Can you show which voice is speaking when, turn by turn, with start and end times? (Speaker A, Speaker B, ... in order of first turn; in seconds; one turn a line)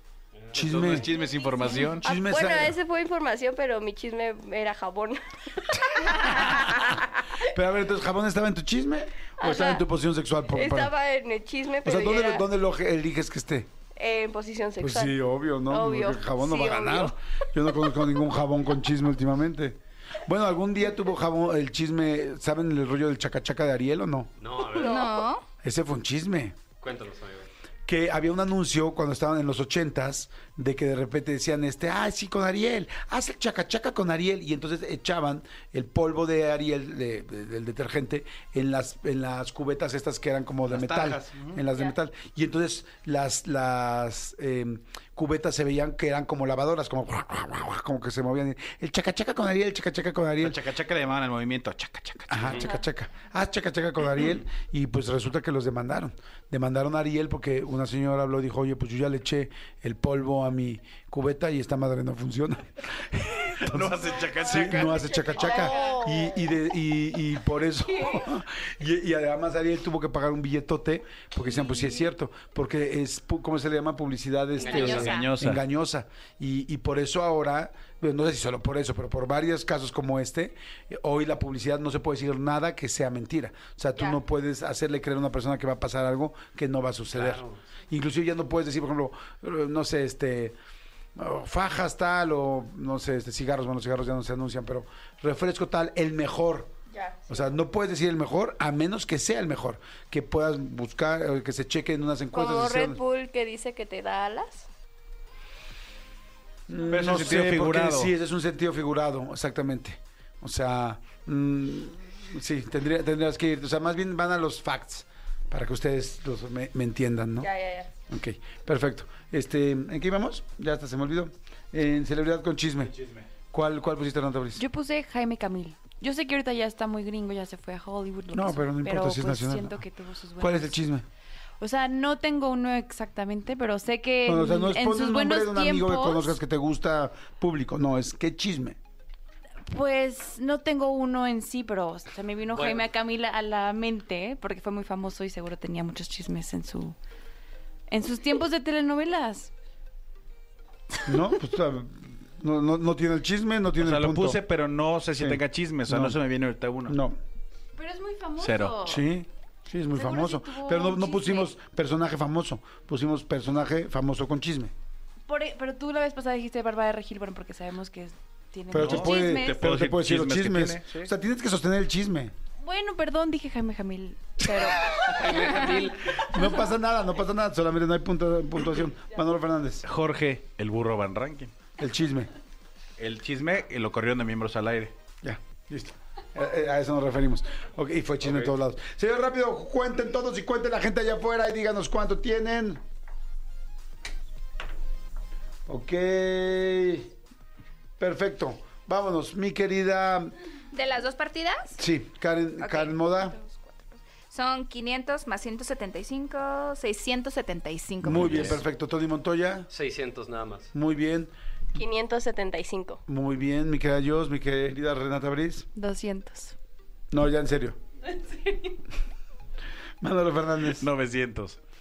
Speaker A: 0.4-1.0
Speaker B: 0.5-1.1
Speaker C: 0.5-2.0
Speaker B: 2.0-2.8
Speaker D: 2.0-7.2
Speaker B: 6.1-10.9
Speaker D: 9.4-9.8
Speaker D: 10.5-12.4
Speaker B: 11.8-13.7
Speaker D: 14.0-15.2
Speaker B: 14.8-24.3
Speaker D: 15.7-17.1
Speaker A: 24.4-25.2
Speaker D: 24.8-25.2
Speaker E: 24.8-25.4
Speaker B: 25.6-26.6
Speaker A: 26.8-27.5
Speaker B: 27.9-50.6
Speaker C: 40.7-41.6
Speaker C: 50.4-52.7
Speaker B: 52.3-90.5
Speaker C: 63.5-65.2
Speaker D: 64.8-66.5
Speaker E: 65.4-66.0
Speaker A: 74.6-75.0
Speaker E: 74.7-75.3
Speaker C: 74.7-75.6
Speaker A: 87.1-87.6
Speaker B: 91.2-96.7
Speaker D: 96.9-97.5
Speaker B: 97.3-103.0
Speaker D: 102.3-104.7
Speaker B: 106.7-117.5
Speaker C: 106.9-108.1
Speaker D: 117.4-117.9
Speaker B: 118.1-122.9
Speaker C: 122.8-123.3
Speaker B: 123.5-124.6
Speaker F: 124.6-130.8
Speaker B: 128.3-129.8
Speaker B: 130.4-131.1
Speaker F: 131.6-136.4
Speaker B: 134.2-138.8
Speaker F: 139.7-147.0
Speaker A: 142.5-142.8
Speaker F: 147.9-149.5
Speaker B: 151.1-154.4
Speaker C: 153.8-157.0
Speaker B: 155.2-156.2
Speaker B: 156.9-157.2
Speaker F: 157.8-159.1
Speaker C: 158.4-158.8
Speaker B: 158.8-164.7
Speaker F: 159.9-161.5
Speaker F: 165.3-169.7
Speaker B: 168.7-172.3
Speaker C: 168.7-171.1
Speaker F: 172.6-175.3
Speaker A: 175.0-176.1
Speaker B: 176.2-179.8
Speaker C: 179.8-181.5
Speaker B: 181.8-182.3
Speaker C: 183.0-184.9
Speaker B: 185.2-192.8
Speaker B: 195.7-197.1
Speaker B: 198.0-200.3
Speaker E: 200.7-201.8
Speaker B: 201.8-203.4
Speaker E: 202.6-208.6
Speaker B: 208.0-209.7
Speaker A: 208.2-208.6
Speaker A: 209.7-210.7
Speaker B: 210.7-211.3
Speaker D: 211.8-213.0
Speaker B: 213.1-215.7
Speaker F: 215.8-216.6
Speaker B: 217.1-217.8
Speaker F: 218.1-218.8
Speaker B: 220.0-220.9
Speaker C: 220.8-221.6